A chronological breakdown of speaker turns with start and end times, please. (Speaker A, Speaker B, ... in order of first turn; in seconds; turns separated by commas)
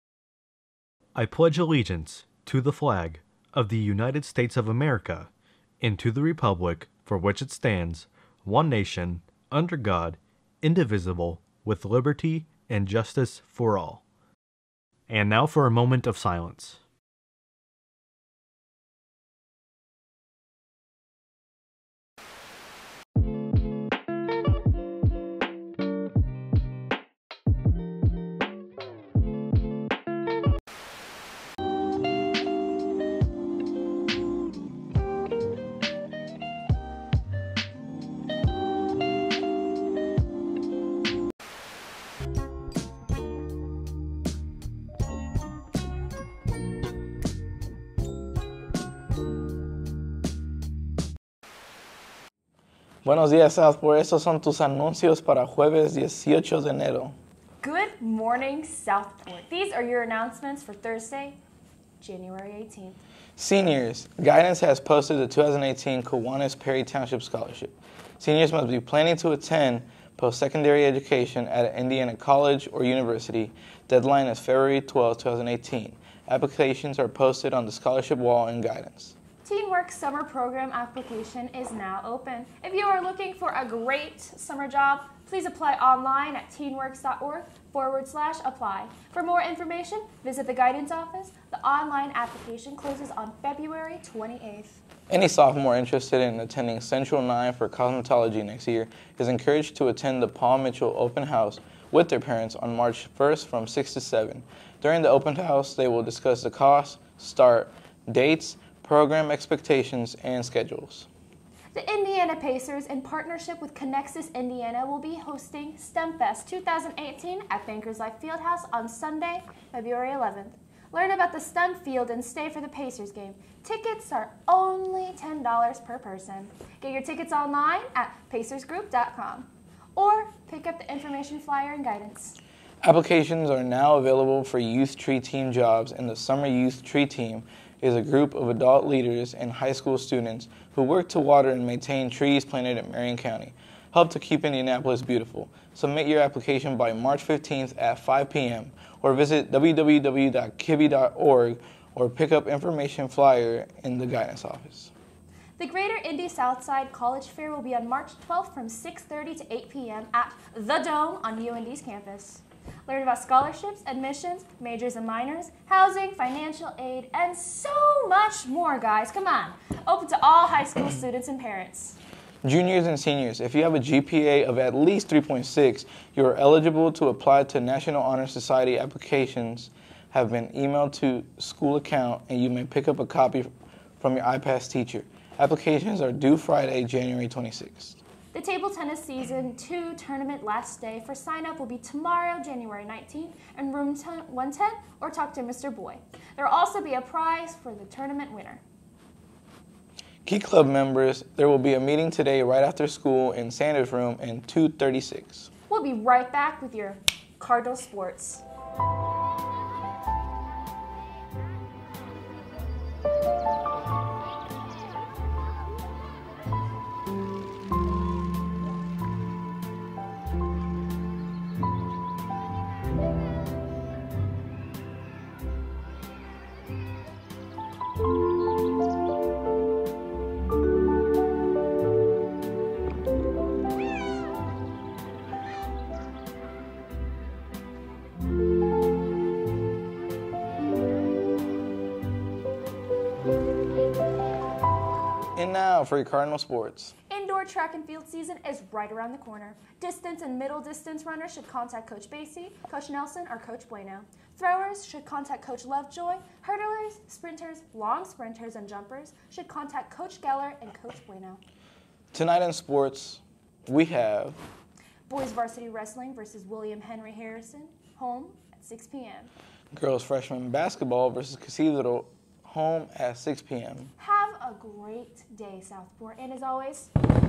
Speaker A: 1.1-5.3, Speaker A: 5.8-14.0, Speaker A: 15.1-16.8, Speaker B: 53.0-57.1, Speaker C: 57.6-61.4, Speaker C: 62.0-63.0, Speaker B: 63.4-79.2, Speaker C: 79.4-94.8, Speaker B: 95.1-111.1, Speaker C: 111.7-132.4, Speaker B: 132.8-154.9, Speaker C: 155.6-172.0, Speaker B: 172.4-188.0, Speaker C: 188.3-198.6, Speaker B: 200.2-205.5, Speaker C: 205.7-208.4, Speaker B: 245.3-246.9, Speaker C: 247.1-261.4, Speaker B: 262.1-264.4, Speaker C: 265.1-269.3, Speaker B: 269.7-273.9, Speaker C: 274.0-276.9